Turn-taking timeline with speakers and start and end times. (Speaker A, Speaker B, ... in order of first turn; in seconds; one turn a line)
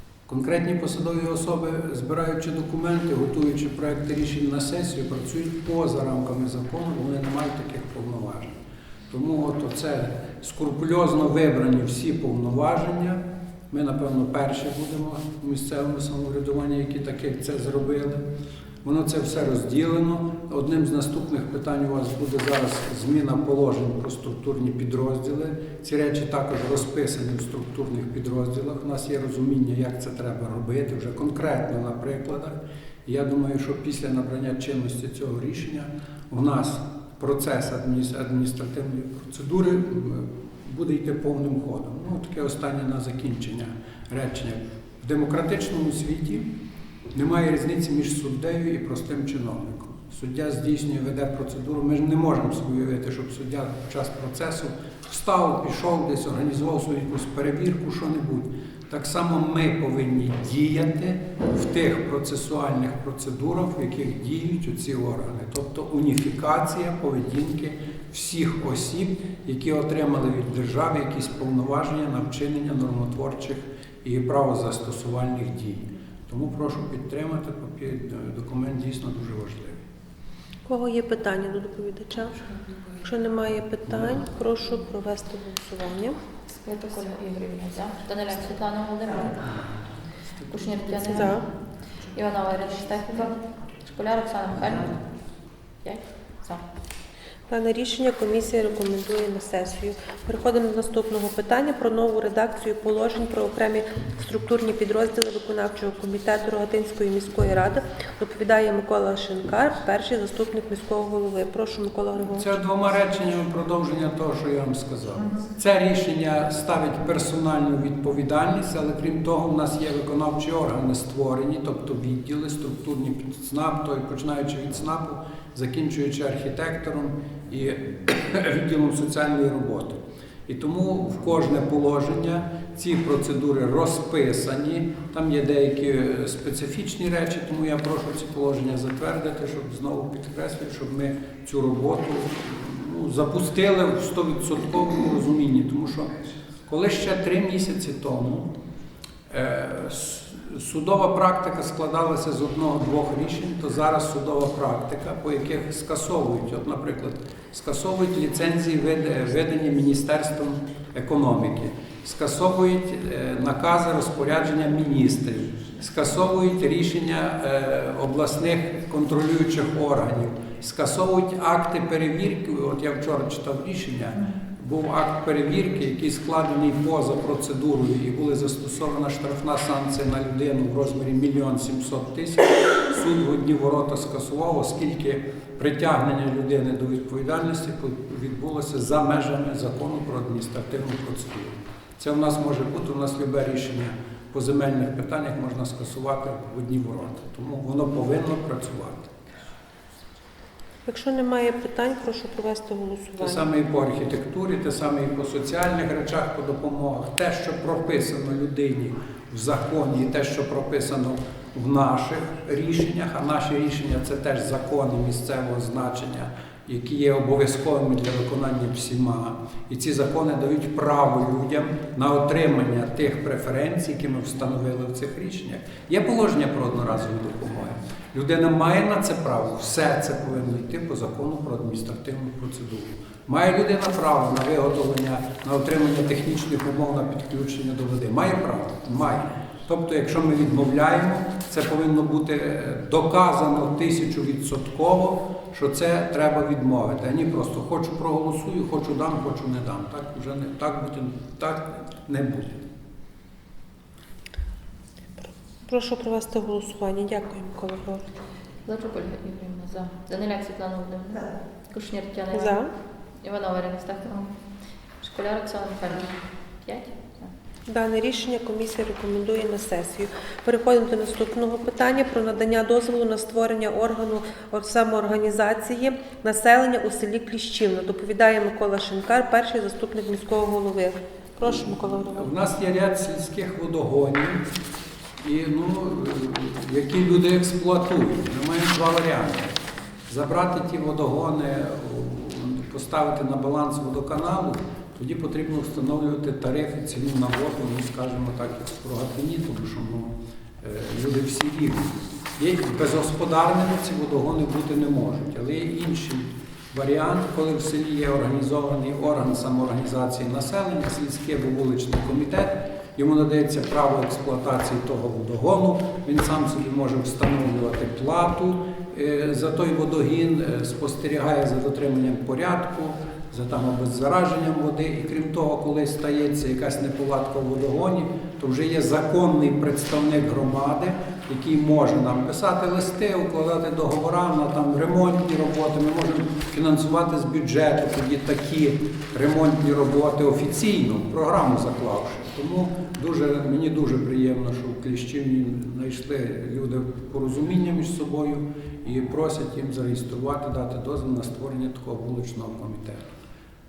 Speaker A: 0.3-18.2
Speaker A: 18.8-46.5
Speaker A: 47.1-79.8
Speaker B: 80.7-82.5
Speaker B: 83.0-86.2
Speaker A: 83.9-84.2
Speaker C: 86.6-89.5
Speaker A: 89.4-89.8
Speaker C: 90.5-91.5
Speaker B: 91.0-91.5
Speaker C: 92.1-95.0
Speaker C: 95.8-96.6
Speaker B: 97.5-112.6
Speaker A: 112.4-148.5
Speaker A: 149.3-199.1
Speaker B: 200.9-203.5
Speaker A: 203.2-252.6
Speaker B: 255.2-258.0
Speaker C: 258.7-262.6
Speaker B: 262.3-262.7
Speaker C: 263.2-264.4
Speaker C: 265.0-267.3
Speaker B: 267.7-282.3
Speaker A: 281.4-284.4
Speaker A: 285.2-289.5
Speaker A: 290.1-353.1